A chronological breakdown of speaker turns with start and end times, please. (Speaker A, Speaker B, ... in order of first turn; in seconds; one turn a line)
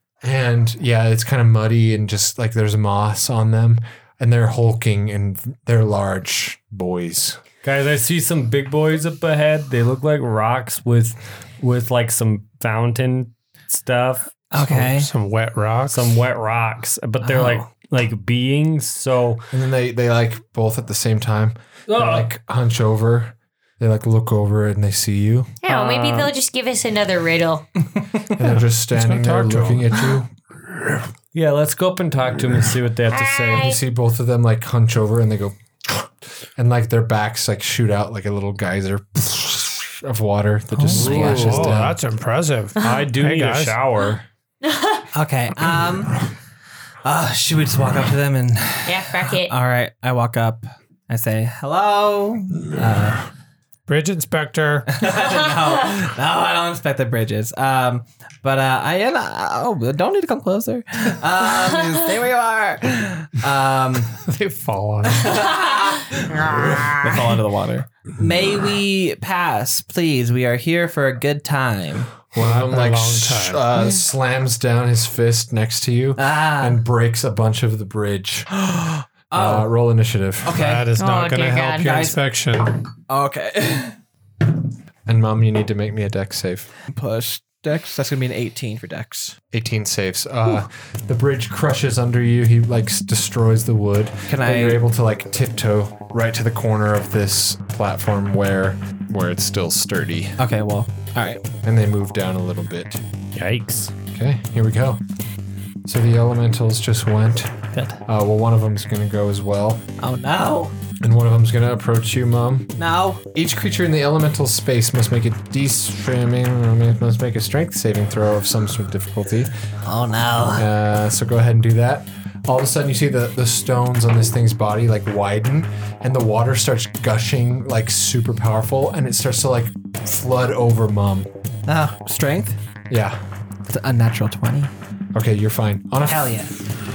Speaker A: 0.2-7.4
Speaker B: 7.6-14.3
Speaker C: 14.5-15.1
Speaker D: 14.6-16.1
Speaker B: 15.9-19.5
Speaker C: 17.2-17.7
Speaker A: 19.5-25.6
Speaker B: 21.9-22.3
Speaker E: 25.6-27.7
Speaker B: 25.7-26.3
Speaker A: 28.3-30.3
Speaker D: 28.9-30.2
Speaker B: 31.3-33.7
Speaker E: 33.1-33.8
Speaker A: 33.2-42.0
Speaker C: 40.8-41.6
Speaker B: 40.9-41.8
Speaker D: 40.9-43.8
Speaker B: 42.8-44.2
Speaker E: 44.6-45.1
Speaker C: 45.1-46.2
Speaker C: 47.0-53.3
Speaker E: 48.9-49.5
Speaker D: 53.9-55.0
Speaker C: 54.9-64.2
Speaker D: 64.2-65.5
Speaker C: 65.1-72.3
Speaker E: 65.3-65.8
Speaker A: 72.3-78.5
Speaker D: 72.4-73.7
Speaker C: 76.2-76.8
Speaker C: 78.5-79.7
Speaker A: 79.3-80.6
Speaker C: 80.4-80.9
Speaker D: 80.5-82.8
Speaker E: 81.0-81.9
Speaker C: 81.8-82.2
Speaker C: 83.1-84.0
Speaker A: 85.0-86.7
Speaker C: 86.9-89.4
Speaker A: 89.5-100.4
Speaker C: 94.3-94.8
Speaker C: 100.4-101.4
Speaker A: 101.6-103.0
Speaker B: 103.3-103.9
Speaker A: 104.1-105.0
Speaker A: 105.8-109.8
Speaker C: 110.0-110.7
Speaker A: 111.0-112.8
Speaker C: 112.8-113.2
Speaker A: 113.3-119.5
Speaker C: 119.8-120.7
Speaker A: 120.5-131.3
Speaker C: 131.7-132.6
Speaker A: 132.9-133.2
Speaker C: 133.7-134.7
Speaker A: 135.1-136.5
Speaker C: 136.0-136.5